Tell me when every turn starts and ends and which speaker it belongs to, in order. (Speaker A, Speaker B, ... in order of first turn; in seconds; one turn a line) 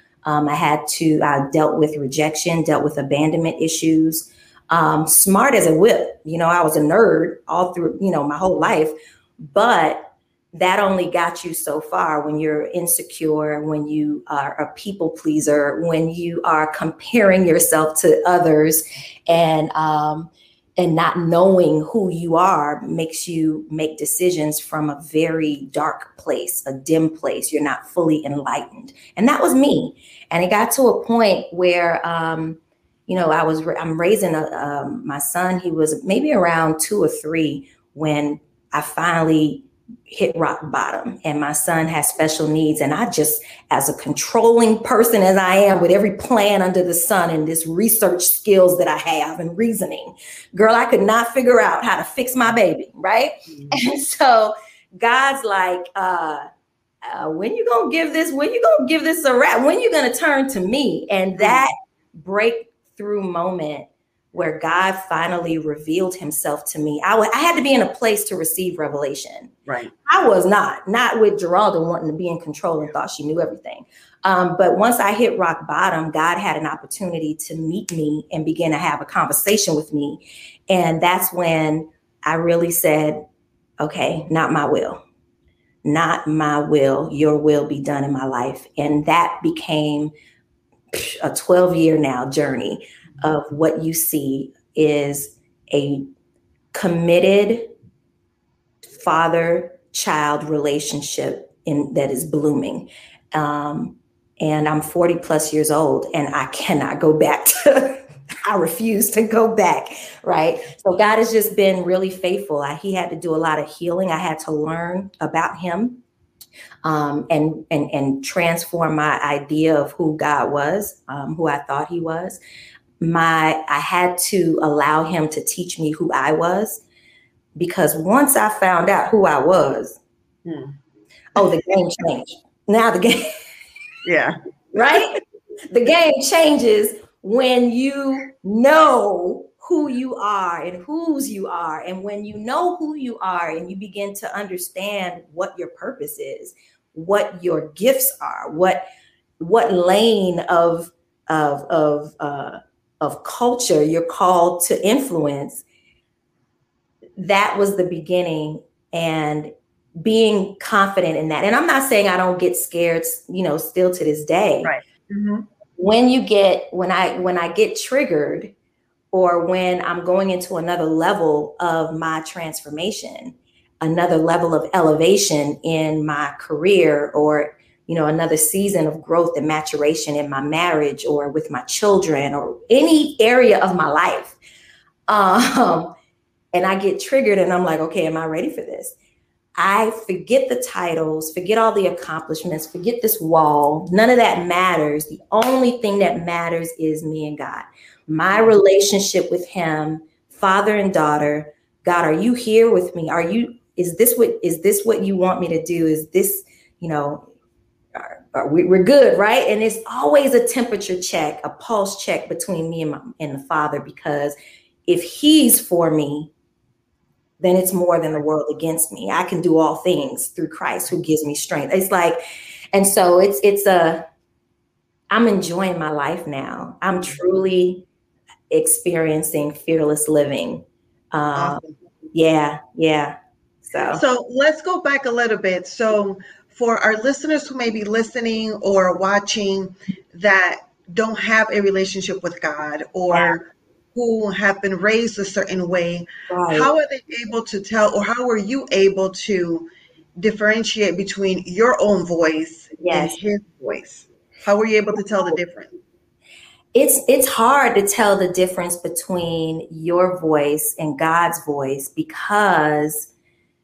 Speaker A: 0.2-56.5
Speaker A: 57.1-69.5
Speaker B: 69.7-69.9
Speaker A: 70.1-83.2
Speaker A: 83.8-85.0
Speaker A: 85.8-90.1
Speaker A: 90.9-96.1
Speaker A: 96.7-97.7
Speaker A: 99.0-116.0
Speaker A: 116.8-122.4
Speaker A: 123.0-126.8
Speaker A: 127.6-130.0
Speaker B: 130.4-130.7
Speaker A: 131.3-133.3
Speaker B: 134.1-135.0
Speaker A: 134.7-148.8
Speaker A: 149.4-155.6
Speaker A: 157.2-164.7
Speaker B: 164.6-165.4
Speaker A: 165.8-168.5
Speaker A: 169.1-184.4
Speaker A: 185.1-185.9
Speaker A: 186.5-189.0
Speaker A: 189.6-207.3
Speaker A: 207.9-214.4
Speaker A: 214.9-216.3
Speaker A: 217.4-222.2
Speaker A: 222.7-224.1
Speaker A: 225.1-227.9
Speaker A: 228.5-231.6
Speaker B: 231.4-231.8
Speaker A: 232.1-234.0
Speaker B: 233.9-255.8
Speaker A: 243.1-243.4
Speaker A: 246.3-246.7
Speaker A: 252.8-253.2
Speaker A: 256.7-263.1